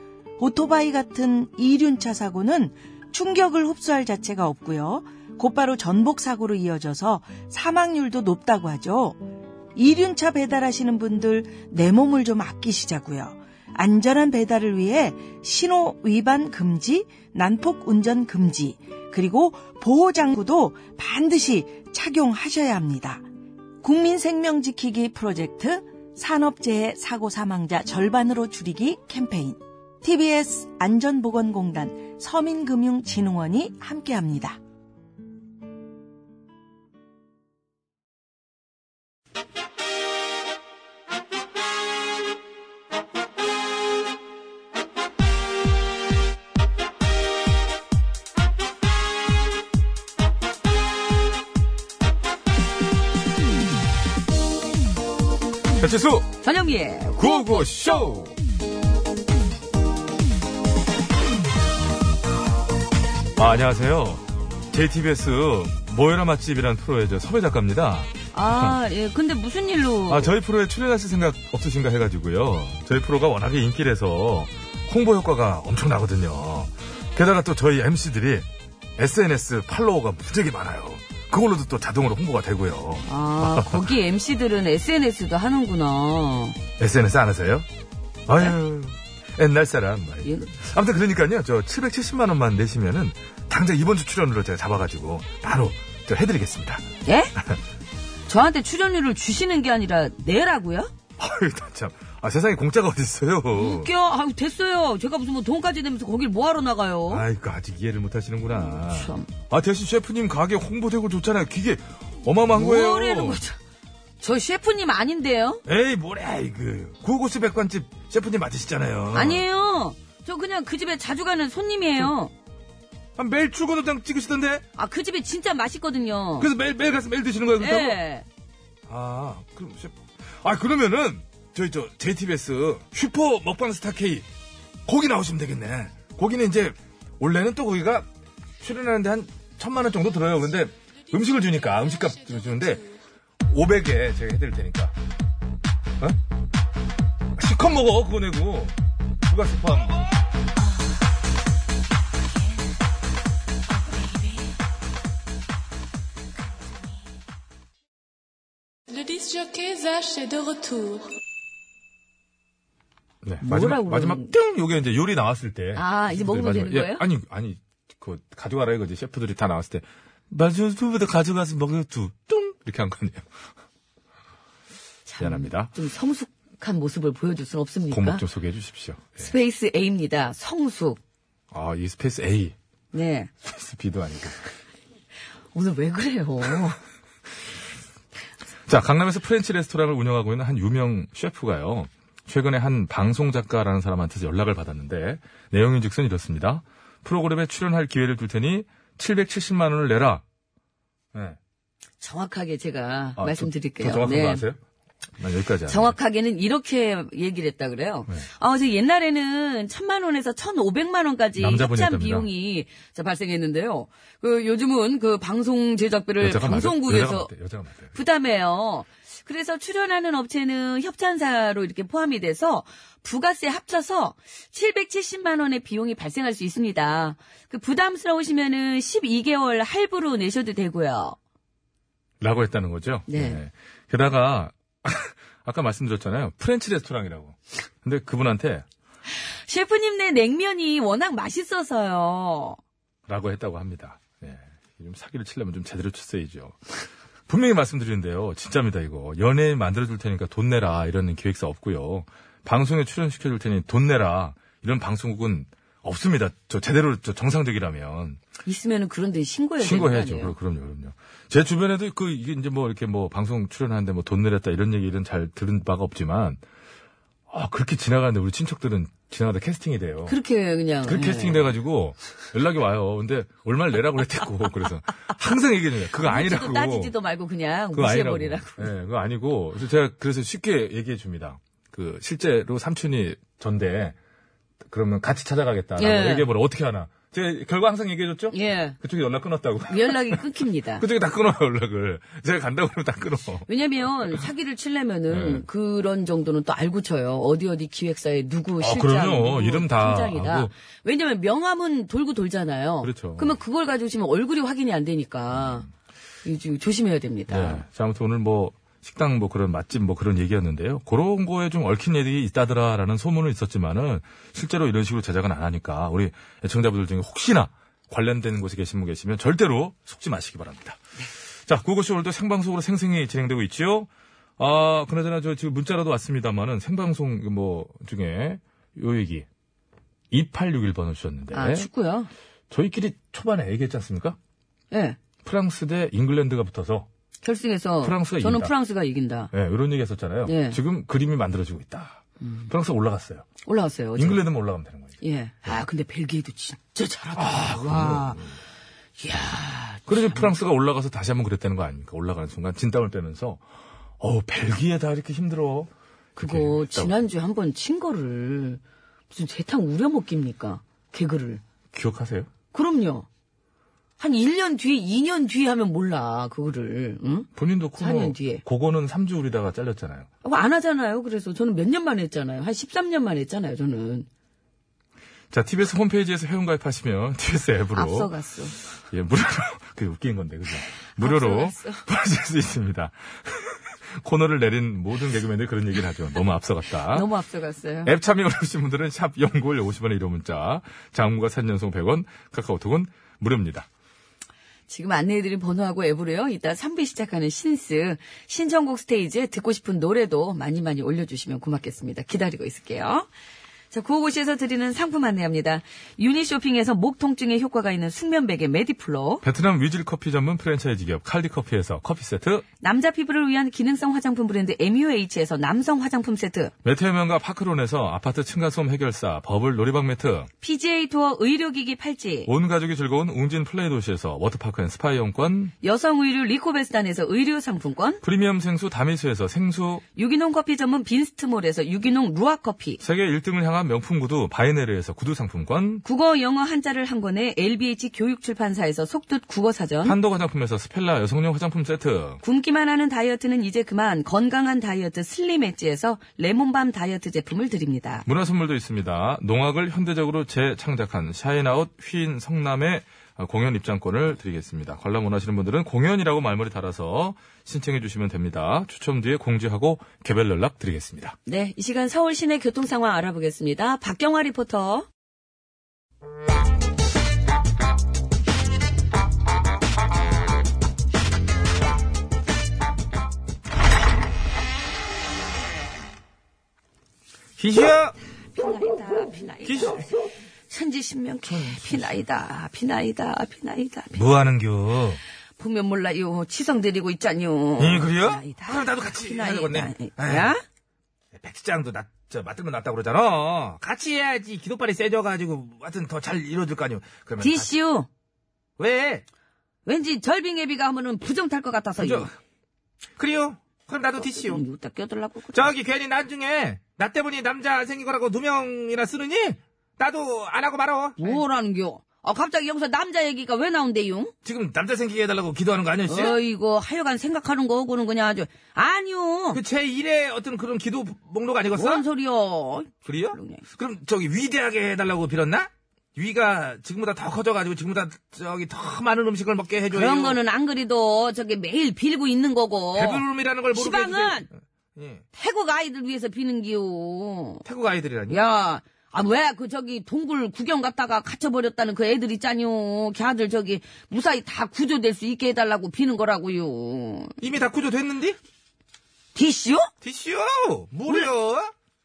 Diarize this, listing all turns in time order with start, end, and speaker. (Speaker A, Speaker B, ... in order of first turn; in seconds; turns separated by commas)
Speaker A: 0.4-9.2, Speaker A: 9.7-23.2, Speaker A: 23.8-34.6, Speaker B: 55.8-56.3, Speaker C: 56.4-58.0, Speaker B: 57.2-58.3, Speaker B: 63.4-68.8, Speaker C: 68.3-70.3, Speaker B: 70.1-78.5, Speaker B: 79.0-83.9, Speaker C: 83.0-86.6, Speaker B: 86.8-87.7, Speaker B: 88.3-96.8, Speaker C: 90.2-90.5, Speaker C: 97.0-97.3, Speaker C: 98.3-100.9, Speaker B: 101.2-103.9, Speaker C: 103.5-107.2, Speaker B: 107.1-113.4, Speaker C: 108.5-109.3, Speaker C: 112.5-113.5, Speaker C: 114.2-115.6, Speaker B: 115.7-119.4, Speaker C: 119.1-122.3, Speaker B: 123.2-124.6, Speaker C: 124.8-126.5, Speaker B: 126.4-128.0, Speaker C: 127.6-128.2, Speaker B: 128.9-134.2, Speaker B: 134.8-138.1, Speaker B: 138.6-142.8, Speaker D: 142.1-142.7, Speaker B: 143.5-144.9, Speaker B: 147.4-148.7, Speaker B: 149.3-150.0, Speaker D: 158.9-161.1, Speaker B: 163.2-173.2, Speaker C: 163.4-164.3, Speaker C: 165.7-167.0, Speaker C: 175.1-178.2, Speaker B: 175.2-175.7, Speaker B: 177.9-179.3, Speaker C: 179.2-181.0, Speaker B: 181.5-182.5, Speaker C: 182.9-183.3, Speaker B: 183.4-184.4, Speaker C: 185.5-186.8, Speaker B: 188.7-200.2, Speaker C: 202.0-204.4, Speaker B: 203.2-204.6, Speaker B: 205.2-205.9, Speaker C: 205.7-217.3, Speaker B: 211.4-212.3, Speaker B: 216.2-217.9, Speaker C: 217.9-231.2, Speaker B: 232.2-238.6, Speaker C: 233.1-233.4, Speaker C: 239.5-242.6, Speaker B: 243.1-246.7, Speaker B: 247.3-258.2, Speaker C: 258.4-260.3, Speaker B: 259.6-266.4, Speaker B: 267.3-270.1, Speaker C: 270.1-271.5, Speaker B: 270.9-276.9, Speaker C: 276.0-278.7, Speaker B: 277.7-283.9, Speaker B: 284.7-290.2, Speaker C: 285.8-286.3, Speaker C: 288.3-288.8, Speaker C: 289.7-290.8, Speaker B: 290.8-293.4, Speaker C: 293.5-305.6, Speaker B: 295.1-295.4, Speaker B: 298.6-300.5, Speaker B: 302.8-303.3, Speaker B: 305.3-305.7, Speaker C: 306.2-307.6, Speaker B: 307.3-320.8, Speaker B: 321.4-329.2, Speaker B: 330.1-331.7, Speaker C: 331.3-332.1, Speaker B: 332.5-334.2, Speaker C: 334.7-335.0, Speaker B: 335.2-336.9, Speaker C: 337.2-339.3, Speaker B: 337.8-338.5, Speaker B: 339.3-343.3, Speaker C: 340.2-340.6, Speaker C: 342.2-342.5, Speaker C: 343.4-344.2, Speaker B: 343.9-344.9, Speaker C: 345.0-348.2, Speaker B: 347.1-348.4, Speaker C: 349.0-350.3, Speaker B: 349.9-353.4, Speaker B: 354.0-356.9, Speaker C: 356.2-361.4, Speaker B: 361.7-362.3, Speaker C: 362.5-363.1, Speaker C: 364.0-367.3, Speaker B: 367.4-370.1, Speaker C: 367.8-368.4, Speaker C: 370.2-374.1, Speaker B: 375.3-378.1, Speaker C: 377.7-378.6, Speaker B: 378.9-387.1, Speaker C: 381.0-381.8, Speaker C: 386.9-387.9, Speaker B: 387.8-393.7, Speaker C: 394.7-403.1, Speaker C: 403.7-409.2, Speaker B: 409.2-412.4, Speaker C: 412.6-416.5, Speaker B: 416.6-420.3, Speaker C: 420.4-422.3, Speaker B: 422.2-425.5, Speaker C: 425.6-428.0, Speaker B: 428.0-429.8, Speaker C: 429.9-432.8, Speaker B: 432.8-435.8, Speaker C: 435.8-440.0, Speaker B: 439.8-442.2, Speaker C: 442.2-448.1, Speaker B: 448.1-461.2, Speaker C: 461.3-464.9, Speaker B: 477.4-477.9, Speaker C: 478.3-479.9, Speaker B: 479.4-479.8, Speaker C: 480.5-484.0, Speaker B: 481.3-481.9, Speaker B: 483.9-485.0, Speaker C: 485.4-490.4, Speaker B: 487.6-490.3, Speaker B: 491.1-497.5, Speaker C: 497.2-497.9, Speaker B: 498.6-499.0, Speaker C: 499.6-502.1, Speaker B: 501.8-502.1, Speaker C: 504.0-505.5, Speaker B: 505.3-507.5, Speaker B: 508.4-508.8, Speaker C: 511.0-514.1, Speaker B: 514.2-516.1, Speaker C: 515.9-519.4, Speaker B: 519.3-521.8, Speaker C: 521.5-523.4, Speaker B: 522.8-530.1, Speaker C: 529.7-534.3, Speaker B: 532.8-534.1, Speaker B: 534.8-535.0, Speaker C: 535.1-537.4, Speaker B: 537.5-538.1, Speaker C: 538.1-547.1, Speaker B: 547.2-548.1, Speaker C: 549.1-549.7, Speaker B: 550.6-551.5